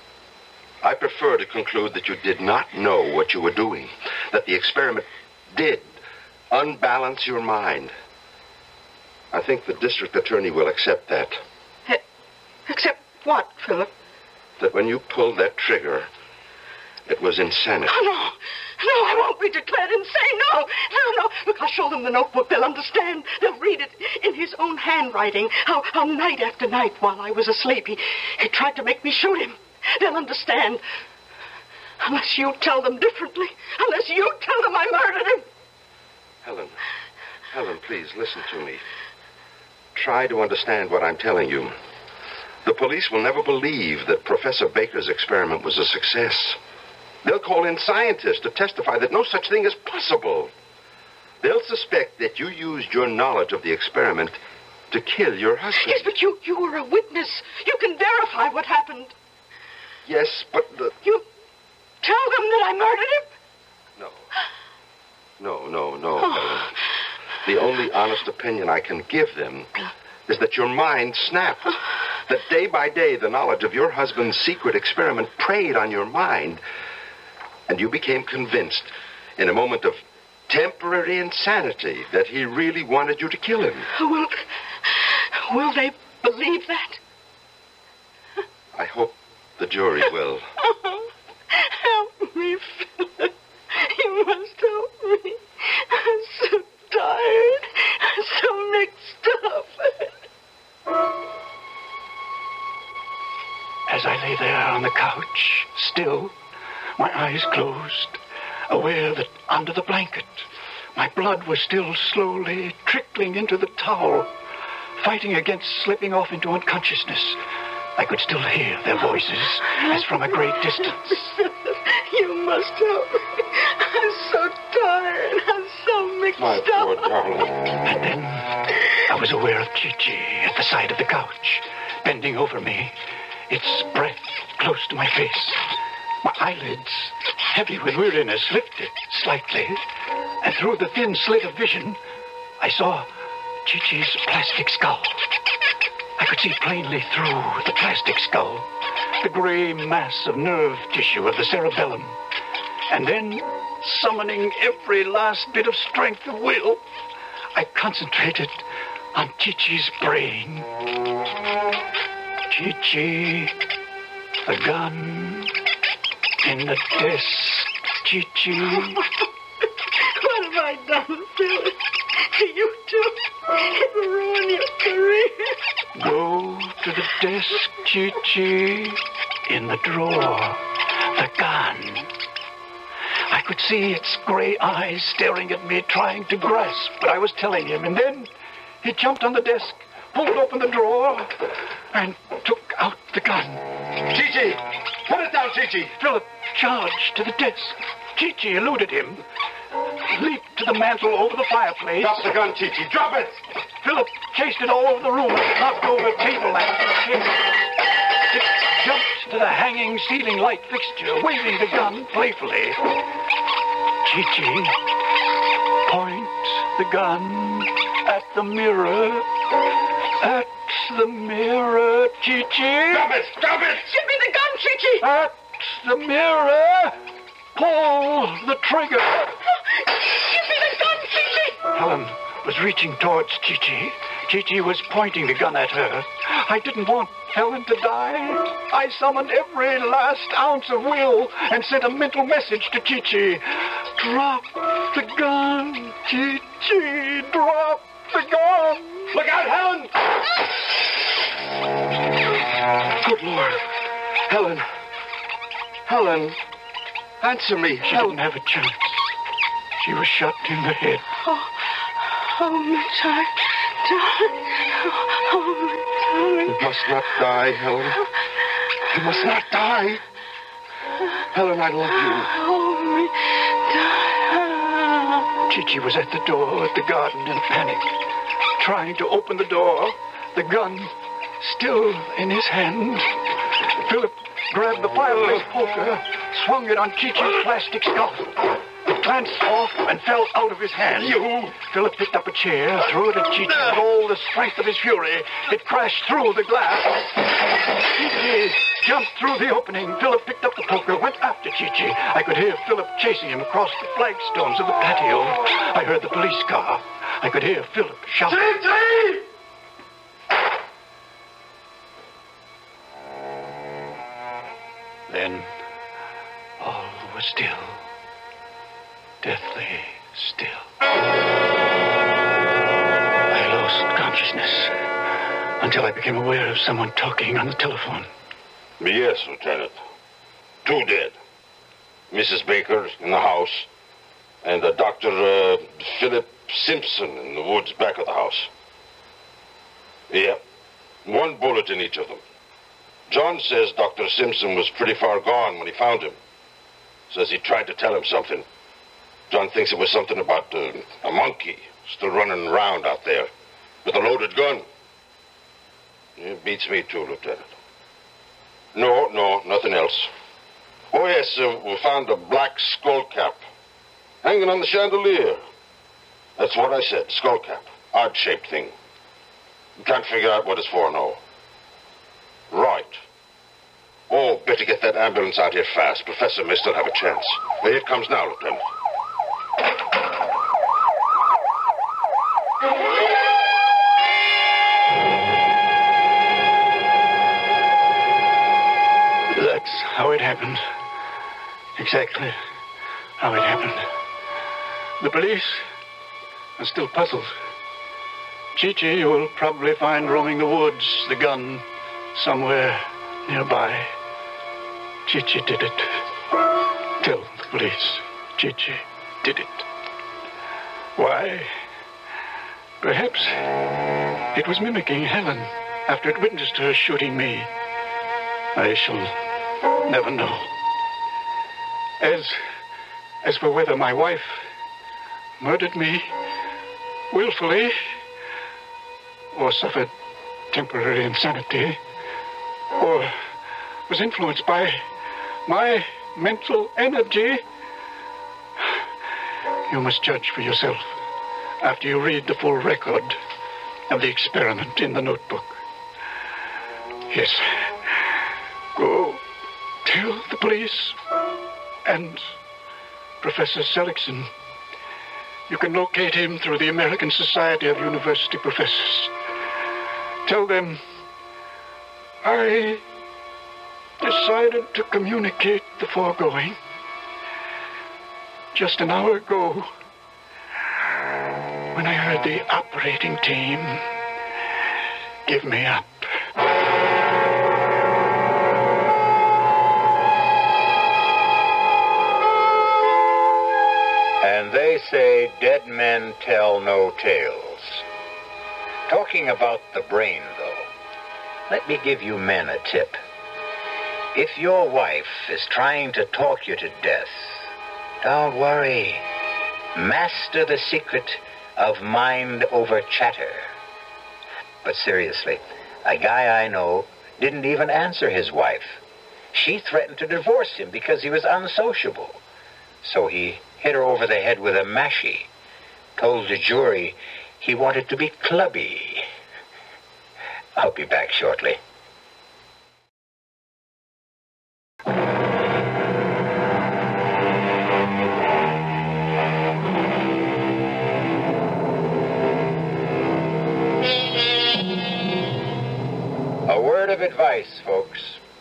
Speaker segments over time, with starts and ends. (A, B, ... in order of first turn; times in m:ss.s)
0:00.8-0:05.9 A
0:06.5-0:07.9 A
0:09.3-0:11.4 A
0:12.7-0:13.9 B
0:14.6-0:16.1 A
0:17.1-0:18.0 A
0:17.9-0:30.8 B
0:32.0-0:35.5 B
0:36.4-0:36.8 A
0:37.5-0:38.8 A
0:40.0-0:41.7 A
0:42.6-0:46.6 A
0:47.2-0:50.5 A
0:51.4-0:54.4 A
0:54.9-0:56.1 A
0:55.7-0:59.1 B
1:00.1-1:00.9 A
1:02.0-1:03.3 B
1:04.0-1:04.3 A
1:05.4-1:06.7 A
1:07.4-1:09.7 A
1:10.3-1:16.6 A
1:17.7-1:23.9 A
1:23.9-1:27.0 B
1:28.8-1:30.5 A
1:30.6-1:40.2 B
1:43.9-1:46.4 C
1:47.0-1:54.3 C
1:55.0-1:57.4 C
1:58.0-2:01.4 C
2:00.8-2:07.1 B
2:06.4-2:07.5 A
2:07.8-2:12.9 C
2:13.5-2:15.7 C
2:16.2-2:19.8 C
2:20.4-2:22.0 C
2:22.6-2:23.1 C
2:23.6-2:25.3 C
2:26.2-2:28.7 C
2:29.2-2:32.2 C
2:32.9-2:36.8 C
2:37.5-2:40.7 C
2:42.5-2:43.6 C
2:44.4-2:45.6 C
2:46.4-2:49.0 C
2:49.8-2:55.6 B
2:56.0-3:02.1 C
3:03.3-3:08.3 C
3:08.8-3:13.7 C
3:14.0-3:15.9 A
3:16.0-3:19.2 C
3:20.0-3:22.3 C
3:22.0-3:23.4 A
3:23.8-3:27.6 C
3:28.3-3:33.0 C
3:34.0-3:34.8 C
3:35.8-3:39.3 C
3:40.2-3:43.1 C
3:42.9-3:43.9 A
3:43.8-3:45.1 B
3:45.0-3:47.0 C
3:47.5-3:49.3 C
3:49.8-3:51.6 B
3:51.7-4:09.2 C
4:09.1-4:10.0 A
4:13.0-4:13.6 A
4:14.3-4:14.6 A
4:15.9-4:16.4 A
4:17.2-4:18.2 A
4:17.8-4:19.2 C
4:19.8-4:21.1 C
4:21.2-4:26.6 B
4:26.5-4:28.0 A
4:28.9-4:30.0 A
4:31.3-4:32.3 A
4:32.1-4:35.3 B
4:35.5-4:37.9 C
4:38.6-4:57.2 C
4:51.0-4:51.6 A
4:57.9-5:08.5 C
5:08.4-5:09.2 A
5:15.1-5:15.5 C
5:16.6-5:17.8 C
5:19.2-5:20.7 C
5:23.3-5:24.7 C
5:25.6-5:28.1 C
5:28.8-5:29.8 A
5:30.6-5:31.2 A
5:32.1-5:33.7 A
5:34.4-5:38.5 A
5:40.1-5:40.4 A
5:41.0-5:42.2 A
5:43.1-5:46.2 A
5:47.1-5:48.4 A
5:49.3-5:53.3 A
5:53.8-5:54.6 A
5:56.2-5:57.5 A
5:58.7-6:00.1 A
6:00.9-6:03.4 A
6:04.2-6:05.4 A
6:06.4-6:08.7 A
6:09.8-6:11.2 A
6:12.5-6:13.0 A
6:14.1-6:18.6 A
6:29.3-6:30.6 C
6:31.8-6:32.4 C
6:33.2-6:33.9 C
6:35.0-6:35.6 C
6:36.6-6:37.3 C
6:38.6-6:44.0 C
6:45.1-6:46.0 C
6:47.0-6:49.7 C
6:51.0-6:51.6 C
6:52.8-6:53.5 C
6:54.3-6:57.5 C
6:58.6-6:59.2 C
6:59.8-7:00.5 C
7:02.0-7:02.4 C
7:03.2-7:04.5 C
7:05.4-7:06.1 C
7:07.1-7:07.8 C
7:09.3-7:09.9 C
7:10.5-7:11.8 C
7:12.8-7:13.2 C
7:13.9-7:14.8 C
7:15.5-7:17.4 C
7:19.7-7:21.0 C
7:21.6-7:23.2 C
7:23.9-7:25.6 C
7:27.1-7:27.9 C
7:28.8-7:29.2 C
7:29.8-7:31.0 C
7:31.8-7:32.3 C
7:33.2-7:34.3 C
7:35.5-7:39.1 C
7:40.2-7:40.8 C
7:42.2-7:42.8 C
7:44.0-7:46.6 C
7:48.5-7:49.7 C
7:51.7-7:53.9 C
7:55.3-7:56.1 C
8:04.2-8:07.8 D
8:08.9-8:10.7 D
8:11.5-8:13.0 D
8:14.1-8:17.5 D
8:18.0-8:19.1 D
8:19.8-8:23.5 D
8:24.6-8:32.2 D
8:32.8-8:35.3 D
8:36.0-8:39.1 D
8:40.6-8:41.6 D
8:56.5-8:58.2 D